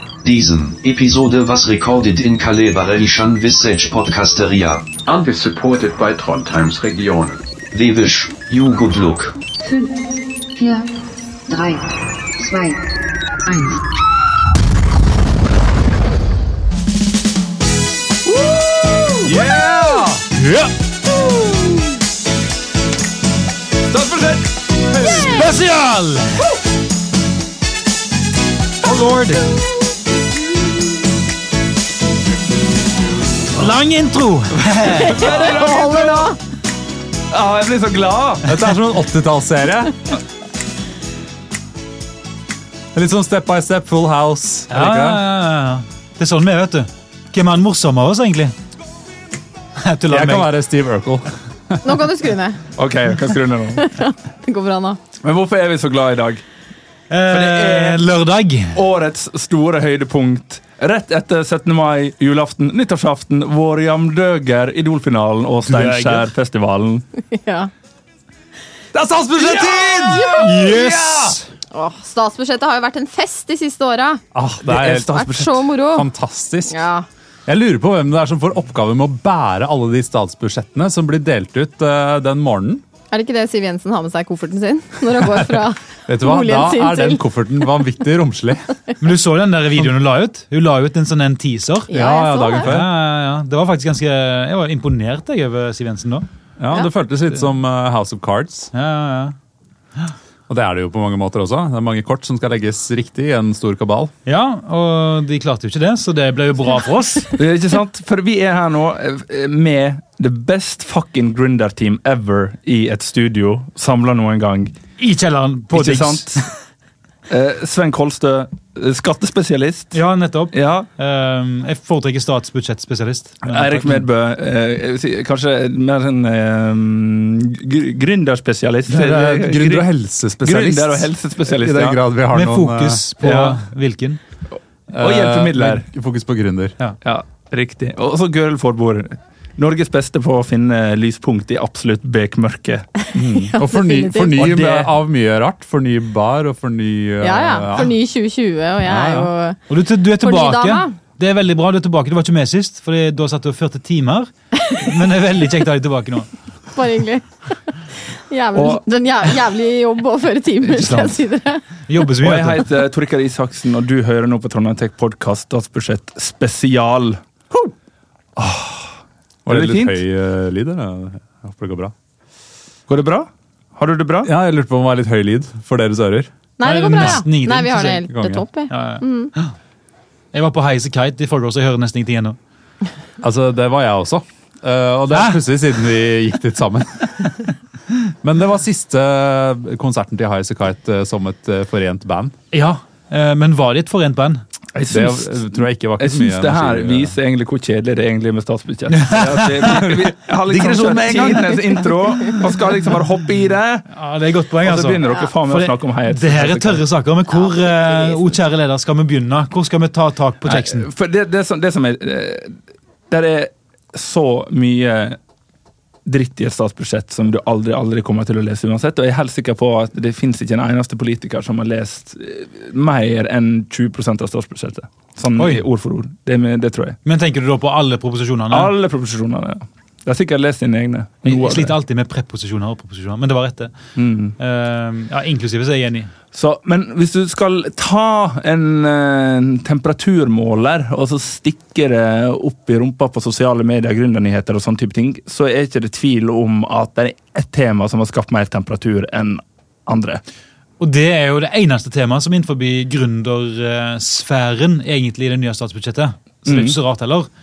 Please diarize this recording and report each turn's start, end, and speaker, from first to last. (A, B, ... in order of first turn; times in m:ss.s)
0:00.2-0:04.9 A
0:05.0-0:07.4 B
0:07.7-0:09.3 A
0:09.6-0:10.0 C
0:10.5-0:10.9 C
0:11.5-0:12.8 C
0:13.5-0:13.8 C
0:18.6-0:19.1 D
0:19.2-0:20.3 E
0:20.3-0:20.7 F
0:23.9-0:25.3 G
0:25.0-0:26.5 F
0:28.8-0:29.5 F
0:33.6-0:35.3 F
0:34.6-0:36.3 G
0:35.0-0:36.4 D
0:37.3-0:38.5 G
0:38.4-0:40.0 E
0:42.9-0:45.2 E
0:44.7-0:48.6 F
0:49.8-0:50.5 F
0:50.1-0:52.0 E
0:51.8-0:52.6 D
0:52.8-0:53.9 G
0:53.8-0:55.0 D
0:55.2-0:56.4 G
0:57.1-0:58.8 F
0:57.3-0:58.1 G
0:58.7-1:07.0 G
1:05.7-1:06.2 F
1:07.2-1:07.7 D
1:08.9-1:11.4 E
1:10.1-1:10.5 D
1:10.2-1:11.4 F
1:11.7-1:14.2 D
1:14.3-1:16.8 E
1:14.6-1:15.5 G
1:15.0-1:16.1 D
1:16.7-1:17.0 D
1:17.4-1:22.8 E
1:23.1-1:27.2 D
1:25.6-1:28.7 E
1:29.0-1:31.9 F
1:31.9-1:32.7 D
1:31.9-1:32.9 E
1:32.6-1:36.3 F
1:36.6-1:38.7 E
1:38.7-1:39.3 F
1:40.5-1:44.1 E
1:44.2-1:47.3 F
1:47.4-1:54.7 G
1:55.0-1:56.5 F
1:55.7-1:56.5 G
1:57.3-2:00.0 G
1:59.9-2:04.1 F
2:00.5-2:00.9 G
2:03.4-2:09.9 G
2:08.9-2:13.0 E
2:10.4-2:12.0 G
2:12.3-2:14.2 F
2:13.2-2:13.6 G
2:14.9-2:16.8 E
2:14.9-2:15.8 G
2:17.0-2:22.9 G
2:23.1-2:24.4 D
2:23.1-2:27.9 E
2:24.4-2:24.9 G
2:27.2-2:29.6 D
2:28.8-2:29.3 E
2:29.7-2:36.3 F
2:30.2-2:30.9 D
2:36.7-2:41.6 D
2:38.5-2:38.8 G
2:40.6-2:41.2 G
2:41.9-2:42.7 F
2:42.2-2:47.2 G
2:48.4-2:48.9 G
2:49.4-2:51.9 E
2:49.5-2:50.0 G
2:52.9-2:54.3 G
2:54.2-2:56.3 E
2:56.6-2:59.3 D
2:56.6-2:58.1 F
2:57.0-2:57.2 E
2:58.1-2:58.4 E
2:58.7-2:59.5 F
3:00.3-3:02.4 F
3:03.2-3:07.4 E
3:05.1-3:05.4 F
3:08.2-3:12.4 E
3:12.5-3:14.4 F
3:14.7-3:23.9 G
3:14.9-3:17.2 E
3:18.9-3:22.7 F
3:23.9-3:30.9 F
3:24.6-3:26.8 G
3:27.3-3:28.3 D
3:30.4-3:32.6 G
3:33.1-3:35.2 G
3:36.0-3:47.0 G
3:45.4-3:45.6 F
3:47.0-3:48.7 F
3:48.5-3:51.8 G
3:51.2-3:53.7 F
3:54.0-3:54.4 G
3:54.4-3:56.1 F
3:56.3-4:10.2 G
4:10.8-4:17.3 F
4:16.5-4:16.8 G